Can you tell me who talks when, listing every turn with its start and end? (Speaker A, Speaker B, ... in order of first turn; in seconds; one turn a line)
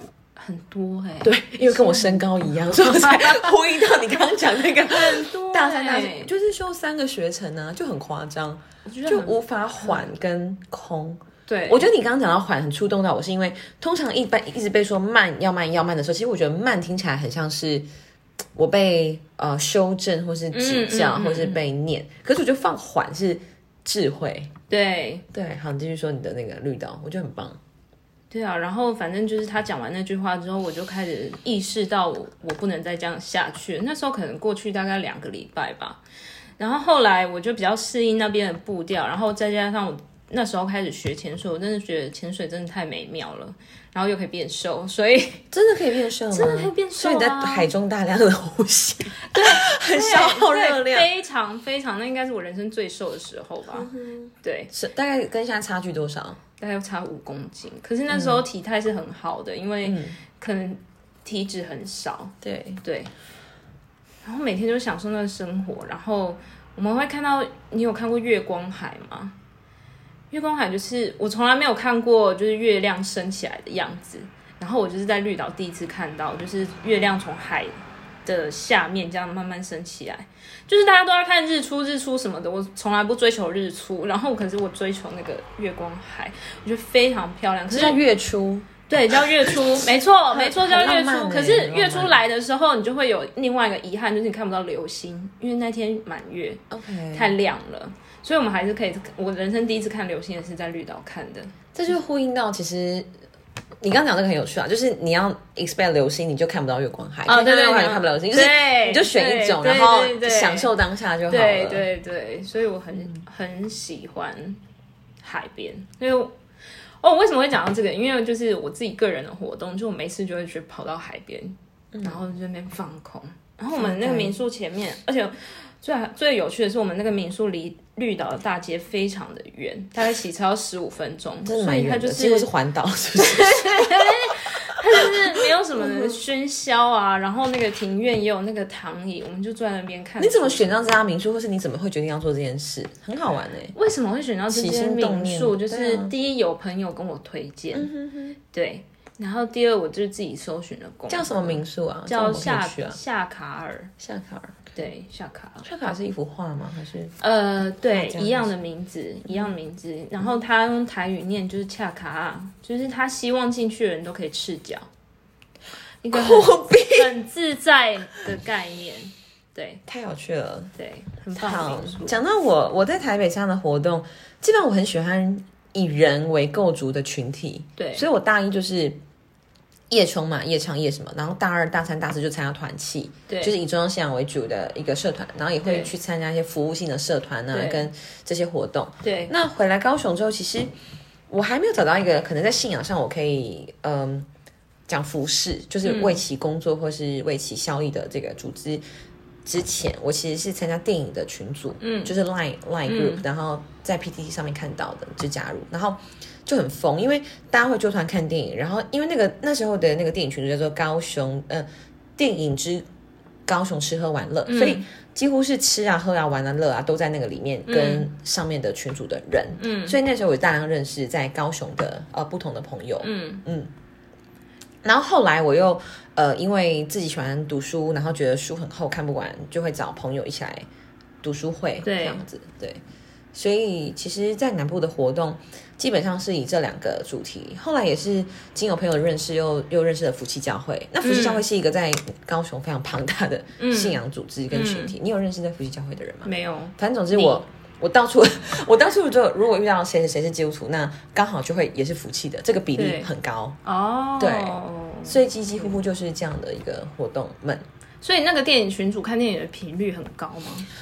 Speaker A: 0.3-3.5
Speaker B: 1.2-17.9
Speaker A: 4.7-6.3
Speaker A: 8.8-10.1
Speaker A: 11.5-11.8
Speaker B: 18.6-24.5
Speaker A: 20.5-21.6
Speaker A: 24.7-25.2
Speaker B: 25.3-27.6
Speaker A: 28.3-36.0
Speaker A: 36.6-45.5
Speaker B: 45.5-51.1
Speaker A: 46.3-47.7
Speaker A: 49.3-53.9
Speaker B: 53.8-56.4
Speaker A: 54.4-54.7
Speaker A: 56.6-63.1
Speaker B: 58.1-58.4
Speaker B: 59.8-60.2
Speaker B: 62.4-62.8
Speaker A: 64.2-69.3
Speaker A: 70.3-88.0
Speaker B: 87.7-89.5
Speaker A: 88.9-101.5
Speaker B: 90.3-92.2
Speaker B: 96.7-97.3
Speaker B: 101.7-103.1
Speaker B: 103.8-111.9
Speaker A: 107.2-110.7
Speaker A: 111.3-114.6
Speaker A: 115.2-116.3
Speaker A: 117.0-132.5
Speaker B: 121.9-122.2
Speaker B: 123.7-124.4
Speaker B: 131.4-135.1
Speaker A: 133.2-140.9
Speaker B: 135.8-136.2
Speaker B: 140.2-143.7
Speaker A: 143.7-147.9
Speaker B: 144.5-146.1
Speaker B: 147.7-148.4
Speaker A: 148.5-153.9
Speaker B: 151.1-153.0
Speaker B: 154.0-154.7
Speaker A: 154.8-155.7
Speaker B: 155.6-157.1
Speaker A: 157.2-164.9
Speaker B: 157.8-158.5
Speaker A: 166.0-169.8
Speaker B: 166.1-167.1
Speaker B: 169.8-170.7
Speaker A: 170.8-172.2
Speaker B: 171.3-179.0
Speaker A: 177.8-178.1
Speaker B: 179.9-190.7
Speaker A: 183.3-183.5
Speaker A: 185.6-185.9
Speaker A: 187.5-187.9
Speaker A: 189.0-189.3
Speaker B: 191.3-194.3
Speaker B: 194.9-198.8
Speaker A: 195.8-196.2
Speaker B: 199.4-212.8
Speaker A: 201.8-202.1
Speaker A: 202.8-203.2
Speaker B: 213.5-223.7
Speaker A: 214.4-214.8
Speaker A: 217.7-218.1
Speaker A: 219.6-220.0
Speaker A: 223.0-223.4
Speaker B: 224.8-230.7
Speaker B: 231.2-232.8
Speaker A: 231.8-232.2
Speaker B: 233.3-253.6
Speaker A: 241.0-241.4
Speaker A: 243.6-244.9
Speaker A: 246.2-247.4
Speaker A: 252.7-253.1
Speaker A: 253.6-255.7
Speaker B: 254.2-257.6
Speaker A: 258.0-260.7